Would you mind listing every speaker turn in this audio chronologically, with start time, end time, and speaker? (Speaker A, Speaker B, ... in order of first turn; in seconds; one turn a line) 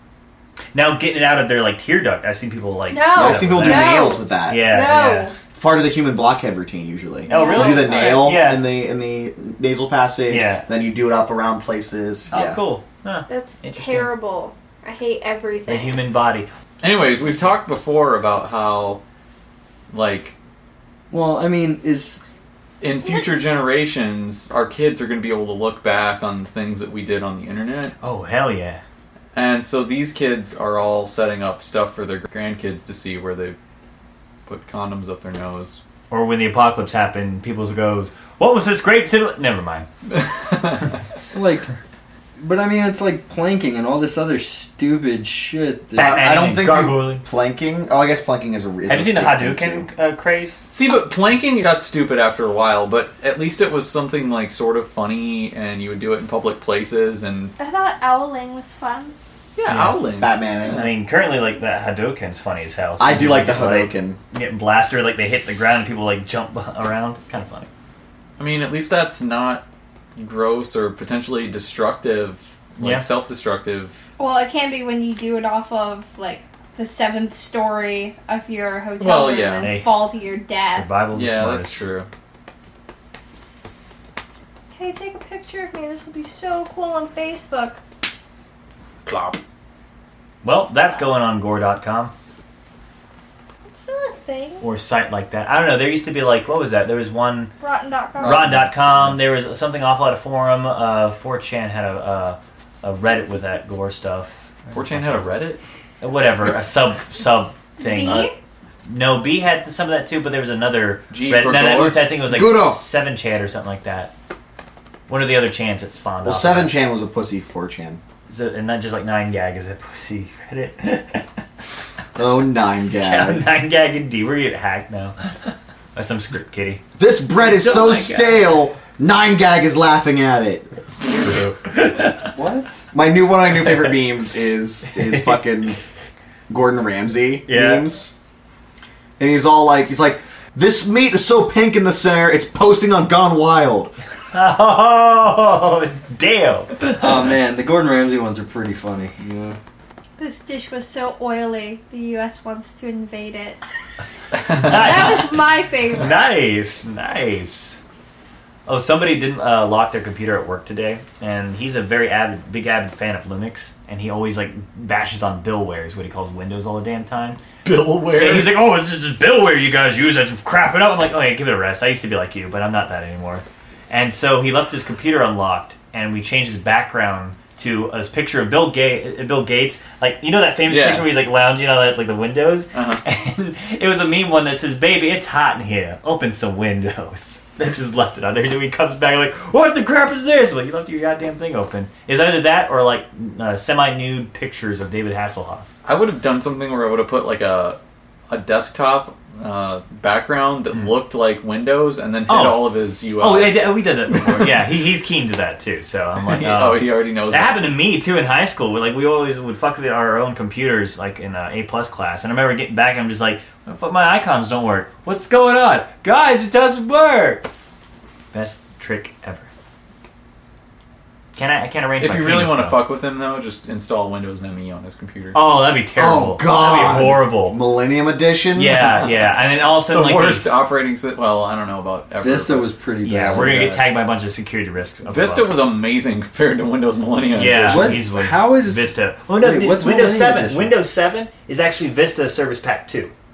Speaker A: 0.7-5.3
Speaker B: 2.9-5.3
Speaker C: 3.1-4.7
Speaker C: 5.5-12.6
Speaker B: 7.3-8.2
Speaker A: 7.3-8.6
Speaker A: 10.3-10.7
Speaker A: 12.3-14.1
Speaker B: 13.3-16.0
Speaker A: 15.7-16.5
Speaker D: 16.8-19.0
Speaker D: 19.9-20.3
Speaker E: 21.1-22.2
Speaker D: 22.8-27.9
Speaker A: 28.0-28.8
Speaker D: 29.3-33.5
Speaker D: 34.5-35.8
Speaker A: 36.1-39.9
Speaker D: 40.1-40.9
Speaker E: 41.3-41.7
Speaker E: 42.4-46.1
Speaker C: 46.0-49.9
Speaker A: 46.0-47.2
Speaker A: 48.9-50.6
Speaker D: 50.7-57.5
Speaker B: 57.6-59.1
Speaker D: 59.5-60.9
Speaker A: 59.7-60.0
Speaker C: 60.2-60.8
Speaker A: 60.7-67.7
Speaker C: 63.0-64.2
Speaker D: 68.4-69.6
Speaker D: 70.2-74.0
Speaker A: 72.8-73.0
Speaker B: 74.2-80.9
Speaker D: 79.0-79.7
Speaker A: 79.6-81.8
Speaker D: 81.1-82.1
Speaker B: 84.7-87.8
Speaker D: 89.1-89.4
Speaker A: 90.4-92.1
Speaker B: 93.7-94.7
Speaker A: 94.6-97.5
Speaker B: 97.6-98.6
Speaker A: 98.2-105.3
Speaker D: 98.2-98.5
Speaker D: 104.7-105.6
Speaker A: 106.0-108.3
Speaker B: 107.8-108.3
Speaker A: 108.8-114.1
Speaker D: 111.1-112.1
Speaker C: 112.3-112.8
Speaker A: 115.1-116.7
Speaker C: 116.2-118.0
Speaker A: 118.3-121.3
Speaker C: 122.2-123.5
Speaker A: 122.9-126.8
Speaker C: 127.0-130.7
Speaker A: 127.4-128.5
Speaker A: 131.0-132.3
Speaker E: 132.3-132.7
Speaker C: 132.9-135.8
Speaker A: 135.0-135.4
Speaker C: 136.5-138.1
Speaker A: 137.5-137.9
Speaker C: 139.2-143.9
Speaker A: 144.3-147.1
Speaker E: 146.9-149.6
Speaker B: 150.2-153.6
Speaker A: 154.5-157.8
Speaker B: 154.5-156.2
Speaker A: 158.7-167.4
Speaker D: 167.6-168.6
Speaker A: 168.2-195.7
Speaker D: 180.7-181.1
Speaker D: 182.7-183.0
Speaker D: 195.8-204.8
Speaker A: 202.3-217.4
Speaker D: 206.2-207.7
Speaker A: 218.3-219.5
Speaker A: 221.3-222.8
Speaker D: 222.0-225.4
Speaker A: 225.3-227.6
Speaker C: 225.9-228.9
Speaker A: 228.5-230.5
Speaker D: 228.8-232.7
Speaker E: 232.2-233.8
Speaker A: 233.0-235.6
Speaker D: 235.1-238.0
Speaker A: 237.3-243.1
Speaker E: 237.6-240.8